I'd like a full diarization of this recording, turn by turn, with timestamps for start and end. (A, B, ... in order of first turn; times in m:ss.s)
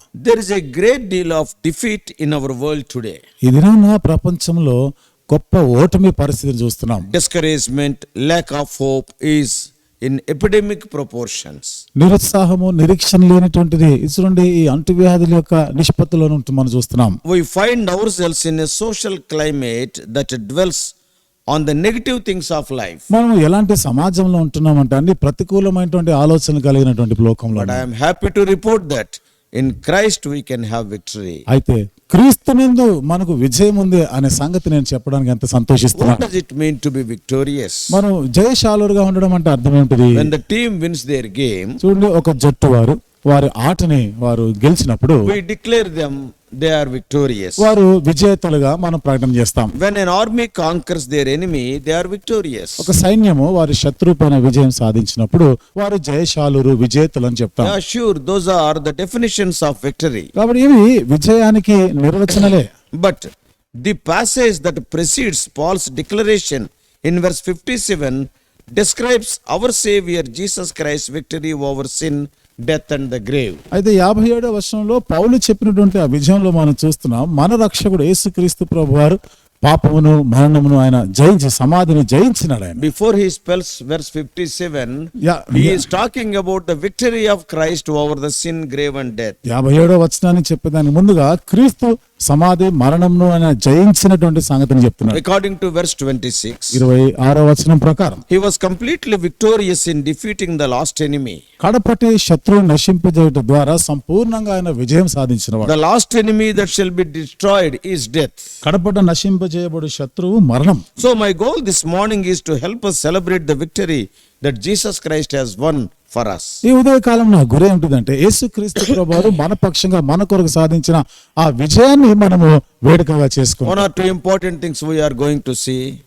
0:00.2-0:03.2 A
0:03.4-0:04.8 B
0:05.3-0:07.1 B
0:07.1-0:11.8 A
0:12.0-0:17.2 B
0:17.3-0:20.9 A
0:21.5-0:23.0 A
0:23.1-0:27.8 B
0:27.6-0:31.4 A
0:31.5-0:36.3 B
0:36.0-0:38.0 A
0:37.9-0:40.3 B
0:40.2-0:41.8 A
0:41.8-0:45.3 B
0:45.2-0:47.7 A
0:47.6-0:49.7 B
0:49.8-0:52.9 A
0:52.8-0:57.8 B
0:57.6-1:00.3 A
1:00.4-1:02.7 B
1:03.0-1:03.3 A
1:03.8-1:08.2 A
1:08.8-1:13.6 A
1:13.7-1:22.8 B
1:22.8-1:29.4 A
1:25.2-1:25.9 B
1:29.5-1:35.2 B
1:35.1-1:36.8 A
1:36.7-1:38.2 B
1:38.3-1:41.4 A
1:41.6-1:45.8 B
1:45.6-1:48.6 A
1:48.6-1:50.8 B
1:51.0-1:56.6 A
1:56.6-2:03.9 B
2:03.6-2:06.0 A